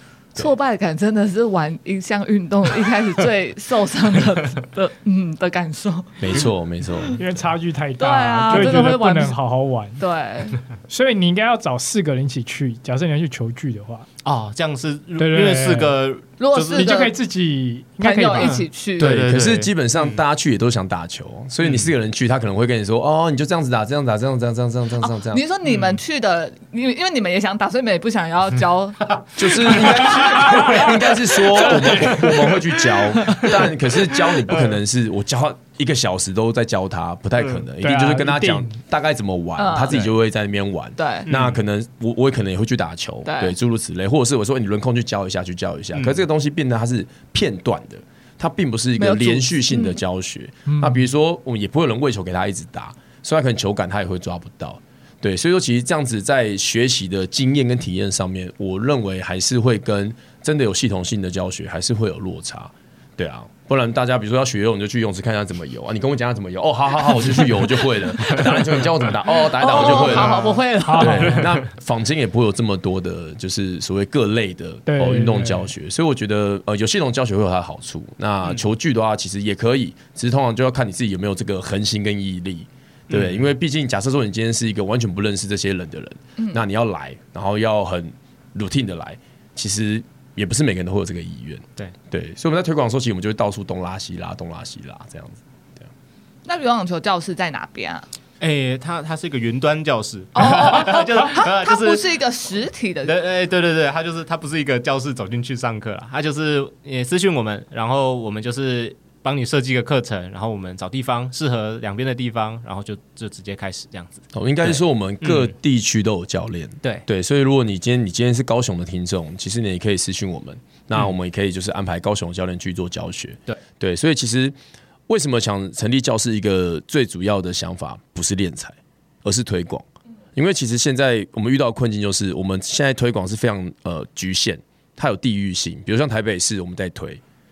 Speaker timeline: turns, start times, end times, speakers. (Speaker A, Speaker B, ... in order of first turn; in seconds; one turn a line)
Speaker A: 0.3-6.2
Speaker B: 6.2-7.2
Speaker C: 7.2-10.0
Speaker A: 8.0-9.4
Speaker A: 10.0-10.6
Speaker C: 10.9-14.1
Speaker D: 14.2-17.0
Speaker C: 15.2-15.9
Speaker A: 16.4-17.2
Speaker C: 16.7-18.6
Speaker A: 18.0-19.2
Speaker D: 18.4-20.1
Speaker B: 19.0-25.4
Speaker D: 21.6-21.9
Speaker A: 25.0-30.9
Speaker D: 25.6-26.0
Speaker B: 29.4-95.9
Speaker D: 29.9-30.4
Speaker C: 30.4-30.7
Speaker C: 31.7-32.3
Speaker D: 34.5-34.7
Speaker C: 37.8-38.8
Speaker A: 39.6-40.0
Speaker A: 41.0-41.3
Speaker D: 41.2-41.6
Speaker A: 43.2-43.5
Speaker D: 45.9-46.2
Speaker A: 49.0-50.0
Speaker C: 50.7-51.0
Speaker D: 68.2-68.6
Speaker A: 69.3-71.4
Speaker D: 69.7-70.6
Speaker C: 70.8-71.5
Speaker D: 71.1-71.5
Speaker C: 74.9-75.7
Speaker D: 83.1-83.5
Speaker A: 96.5-98.1
Speaker D: 98.4-102.2
Speaker A: 100.3-103.1
Speaker D: 103.0-115.5
Speaker B: 114.3-124.5
Speaker B: 125.1-137.2